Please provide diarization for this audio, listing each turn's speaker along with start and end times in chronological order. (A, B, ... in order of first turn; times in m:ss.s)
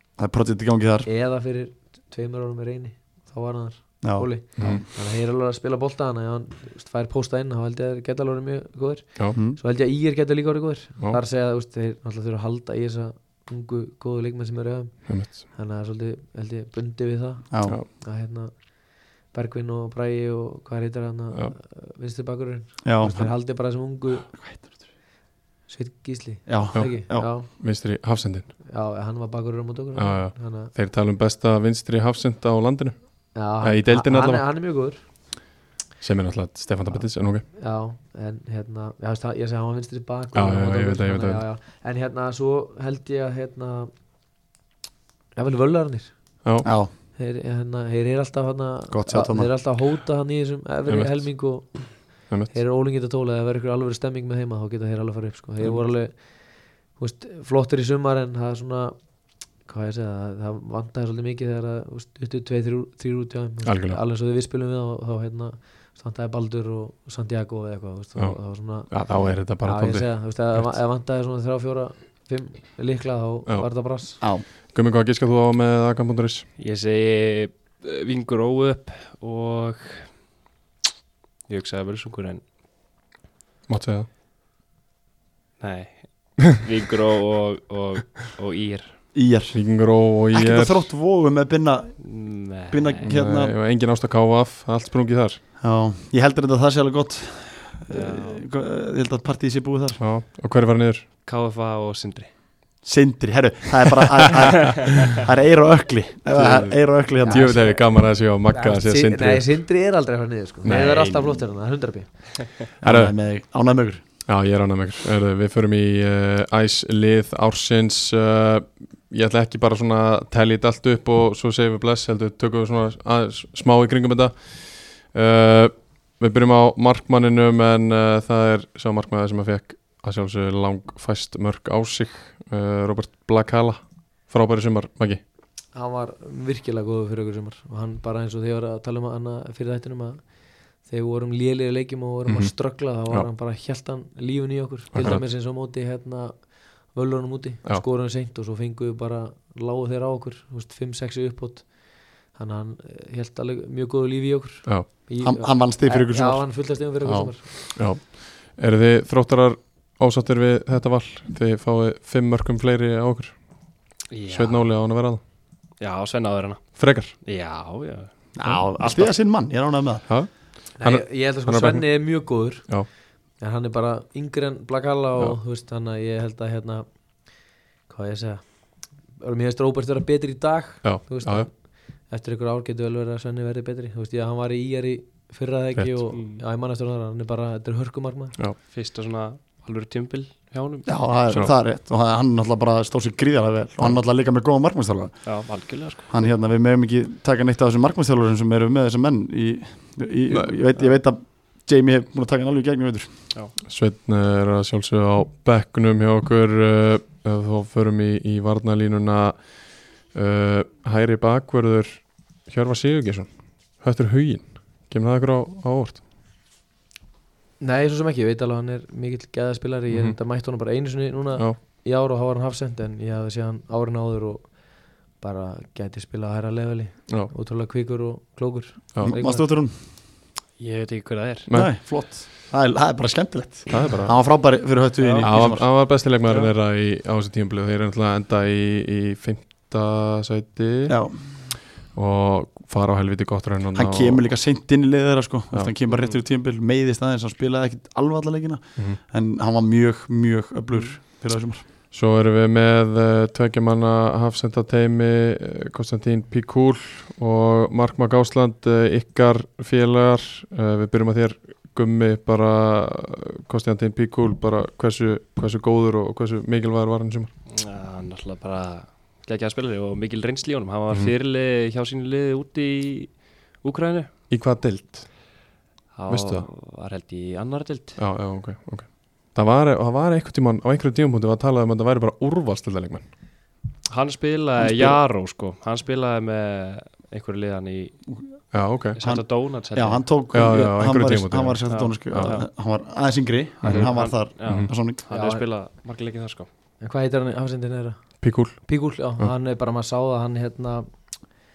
0:00.2-0:01.1 A
0:01.1-0:24.3 B
0:04.0-0:04.8 A
0:04.6-0:04.8 C
0:09.3-0:09.6 A
0:15.1-0:15.4 C
0:17.5-0:17.8 A
0:22.8-0:23.4 A
0:24.3-0:24.8 A
0:25.7-0:27.5 B
0:26.5-0:27.3 A
0:26.7-0:28.5 C
0:28.7-0:30.7 B
0:30.0-0:34.4 C
0:33.4-0:35.0 B
0:36.0-0:37.4 C
0:36.9-0:43.9 B
0:40.3-0:41.4 C
0:45.4-0:46.4 B
0:46.4-0:46.7 C
0:46.6-0:46.9 A
0:47.2-1:14.2 B
0:48.9-0:49.6 A
0:50.9-0:52.5 C
1:03.6-1:04.0 C
1:08.2-1:10.8 C
1:14.6-1:16.5 C
1:16.6-1:20.2 D
1:21.5-1:22.4 D
1:23.7-1:24.1 C
1:25.6-1:29.0 D
1:29.1-1:29.6 A
1:29.5-1:30.9 C
1:30.3-1:33.5 A
1:32.0-1:33.1 D
1:33.1-1:35.4 C
1:35.6-1:40.0 A
1:37.9-1:38.4 D
1:40.0-1:41.1 C
1:41.2-1:42.3 D
1:42.8-1:47.7 A
1:46.3-1:49.6 C
1:47.2-1:52.5 B
1:50.6-1:51.5 A
1:52.8-1:54.0 A
1:52.8-1:53.1 C
1:54.3-2:15.2 C
2:15.7-2:37.5 B
2:22.3-2:23.3 C
2:24.9-2:25.2 C
2:35.2-2:37.4 A
2:37.8-2:43.4 C
2:44.1-2:44.6 D
2:44.3-2:45.2 C
2:45.8-2:48.1 D
2:46.8-2:47.1 C
2:48.4-2:50.4 A
2:48.4-2:49.0 C
2:50.1-2:52.9 C
2:50.8-3:08.4 B
3:00.8-3:01.5 C
3:06.1-3:06.4 D
3:08.7-3:11.2 D
3:10.9-3:15.6 A
3:15.2-3:16.1 D
3:16.1-3:23.1 A
3:23.7-3:36.0 C
3:37.6-3:49.5 B
3:39.9-3:40.2 C
3:49.0-3:49.8 A
3:50.6-3:51.5 D
3:51.5-3:51.8 C
3:51.5-3:55.7 A
3:53.7-3:54.2 C
3:55.0-3:55.3 D
3:55.2-4:04.2 C
3:56.3-3:56.5 D
4:00.9-4:01.5 A
4:03.7-4:11.6 A
4:05.9-4:06.2 D
4:11.9-4:27.3 C
4:27.5-4:34.1 D
4:34.3-4:35.2 C
4:36.0-4:38.0 D
4:36.1-4:36.5 C
4:38.0-4:43.0 C
4:43.9-4:48.1 D
4:44.6-4:45.0 A
4:48.5-4:49.0 C
4:49.0-4:50.1 D
4:49.0-4:55.0 A
4:50.3-4:51.6 C
4:51.7-4:52.4 D
4:53.6-4:53.9 C
4:53.6-4:56.5 D
4:55.1-4:55.4 B
4:56.8-5:00.9 B
4:58.2-4:59.3 C